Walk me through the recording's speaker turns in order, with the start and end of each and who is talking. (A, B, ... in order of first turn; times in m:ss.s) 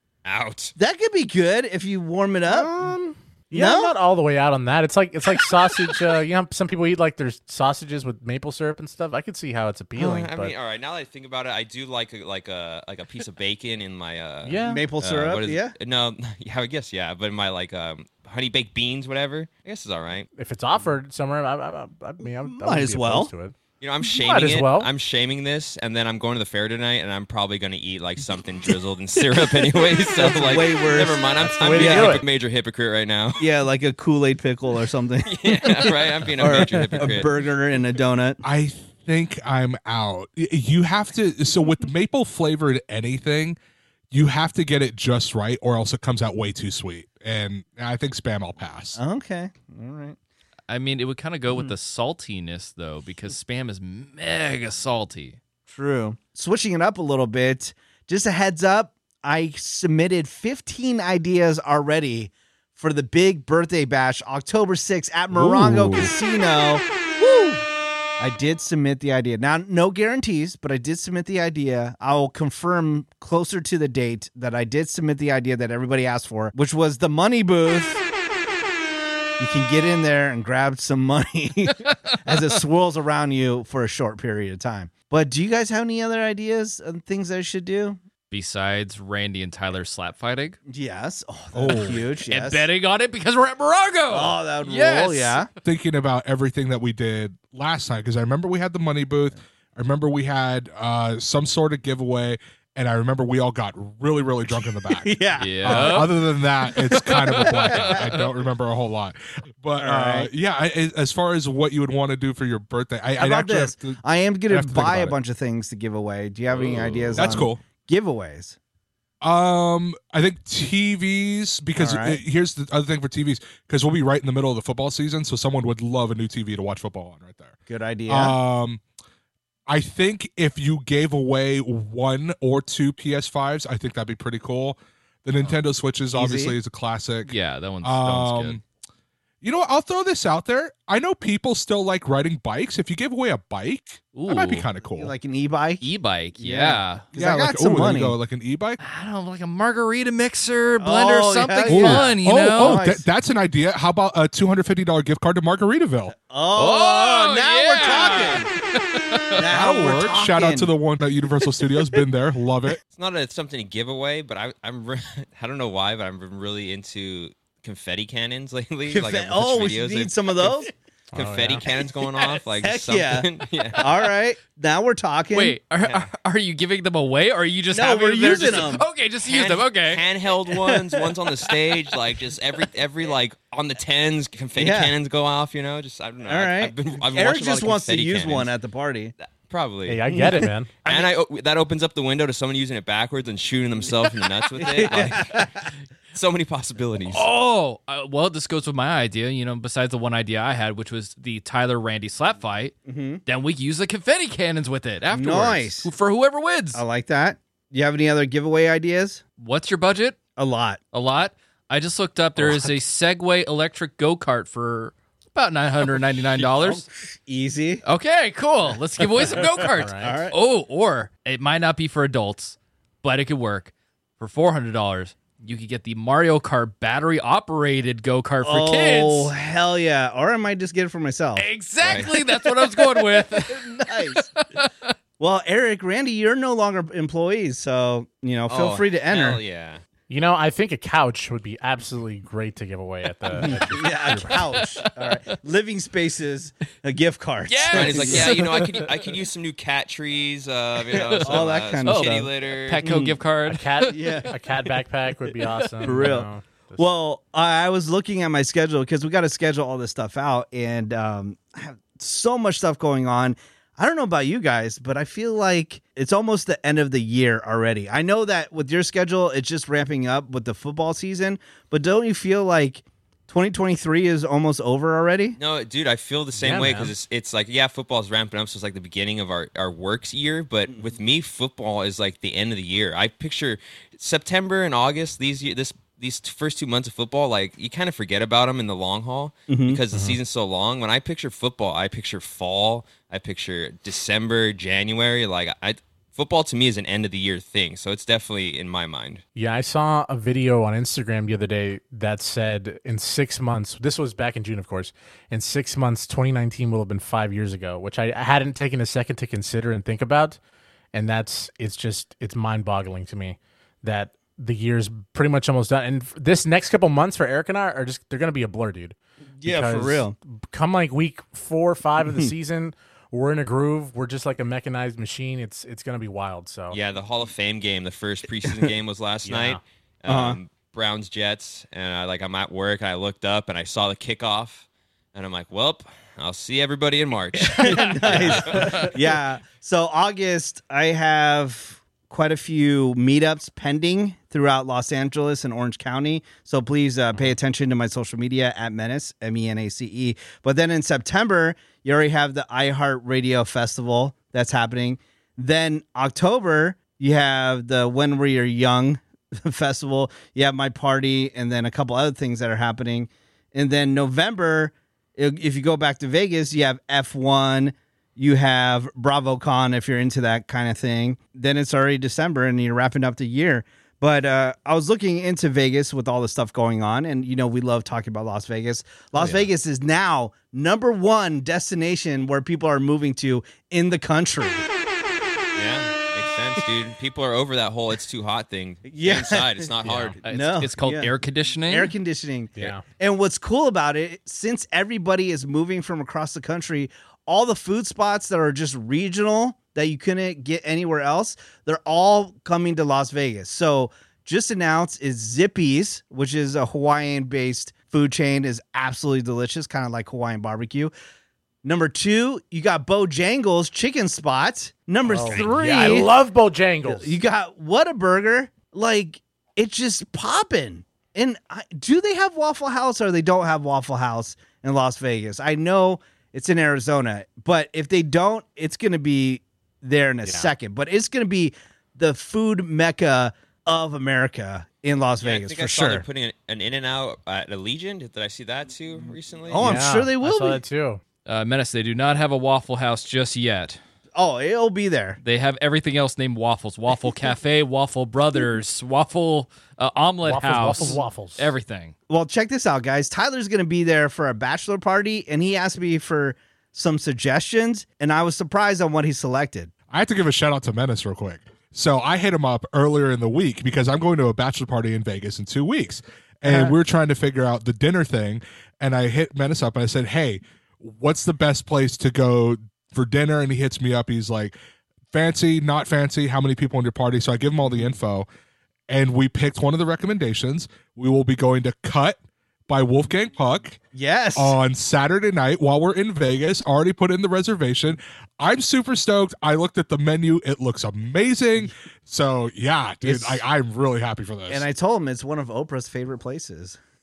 0:00.2-0:00.7 A
0:00.8-0:02.9 B
0:02.5-0:10.5 C
0:03.5-0:03.9 B
0:10.0-0:20.3 A
0:14.4-0:14.8 C
0:14.6-0:15.7 B
0:20.4-0:23.6 C
0:22.4-0:23.3 B
0:23.8-0:33.5 A
0:24.1-0:24.9 C
0:29.7-0:31.2 B
0:31.4-0:32.2 C
0:31.8-0:32.2 B
0:33.4-0:38.4 B
0:35.2-0:37.4 A
0:38.4-0:43.6 D
0:44.1-0:49.0 D
0:49.0-0:50.2 B
0:50.7-0:55.4 E
0:55.6-1:07.6 B
1:05.3-1:06.1 D
1:08.2-1:18.0 B
1:19.4-1:28.0 B
1:21.8-1:22.2 E
1:28.3-1:30.6 E
1:30.7-1:32.7 B
1:31.5-1:32.0 D
1:31.7-1:35.5 E
1:34.1-1:35.5 B
1:35.6-1:55.2 D
1:44.8-1:46.1 B
1:45.4-1:46.1 E
1:46.6-1:47.9 B
1:47.5-1:48.3 E
1:49.8-1:50.3 B
1:53.2-1:58.6 B
1:56.6-1:57.2 E
1:57.2-1:57.6 D
1:59.2-2:07.6 D
2:01.8-2:02.2 B
2:07.7-2:08.4 B
2:08.1-2:08.8 D
2:09.7-2:18.6 D
2:16.1-2:16.6 B
2:17.2-2:18.6 E
2:19.4-2:25.1 D
2:24.1-2:24.7 E
2:25.0-2:28.2 B
2:25.8-2:27.1 E
2:27.1-2:28.8 D
2:28.8-2:32.8 E
2:30.8-2:33.0 B
2:31.7-2:36.1 D
2:36.1-2:38.5 B
2:36.5-2:39.5 E
2:39.4-2:40.7 B
2:39.4-2:42.8 D
2:42.9-2:50.6 A
2:48.9-2:50.7 B
2:51.1-2:51.6 C
2:51.1-2:53.9 A
2:52.6-2:55.6 B
2:55.3-3:00.0 E
2:55.8-2:56.1 A
2:57.7-2:58.8 B
2:59.2-3:08.5 A
3:00.5-3:00.8 B
3:04.6-3:04.9 B
3:06.2-3:09.1 B
3:09.2-3:10.2 A
3:09.9-3:10.7 C
3:10.1-3:11.0 B
3:10.8-3:17.2 A
3:14.1-3:15.0 E
3:14.6-3:15.6 B
3:17.0-3:26.8 E
3:22.8-3:23.2 B
3:25.1-3:25.9 B
3:26.7-3:29.2 B
3:29.4-3:30.2 E
3:30.4-3:30.8 B
3:30.9-3:36.8 E
3:32.4-3:32.8 B
3:35.9-3:37.8 B
3:37.8-3:49.3 E
3:39.0-3:40.3 B
3:39.8-3:40.2 C
3:48.4-3:54.3 B
3:51.4-3:54.9 E
3:51.8-3:52.1 A
3:55.2-3:59.4 B
3:58.5-3:59.8 A
4:00.1-4:04.5 C
4:03.3-4:05.4 E
4:03.3-4:08.4 B
4:07.4-4:08.9 E
4:07.7-4:12.8 A
4:10.9-4:14.3 E
4:11.0-4:13.2 B
4:13.5-4:16.8 C
4:13.9-4:14.3 B
4:15.8-4:16.1 E
4:15.8-4:35.4 B
4:35.4-4:59.2 A
4:36.4-4:36.9 C
4:49.5-4:49.8 B
4:49.9-4:50.2 C
4:59.4-5:10.4 C
5:10.9-5:26.8 C
5:19.4-5:20.1 B
5:22.0-5:22.3 B
5:26.7-5:38.7 A
5:29.2-5:29.6 C
5:30.1-5:30.4 B
5:37.5-6:24.6 B
5:37.6-5:38.9 E
6:19.2-6:19.4 A
6:25.5-6:30.2 A
6:28.9-6:29.6 B
6:29.8-6:30.2 C
6:30.2-6:31.9 E
6:30.2-6:31.1 B
6:31.7-6:50.9 B
6:32.6-6:32.8 C
6:51.6-6:56.1 B
6:55.0-6:57.2 C
6:55.3-6:55.9 E
6:56.8-7:16.0 B
7:10.2-7:10.5 C
7:15.2-7:19.8 A
7:19.5-7:20.6 B
7:19.6-7:21.0 C
7:21.2-7:23.8 E
7:24.1-7:25.2 B
7:25.2-7:31.9 E
7:30.2-7:31.5 C
7:32.1-7:39.7 B
7:39.9-7:54.5 D
7:55.1-7:58.2 D
7:58.9-8:03.8 D
8:03.9-8:04.5 B
8:04.4-8:14.6 D
8:13.0-8:13.4 B
8:14.5-8:16.8 B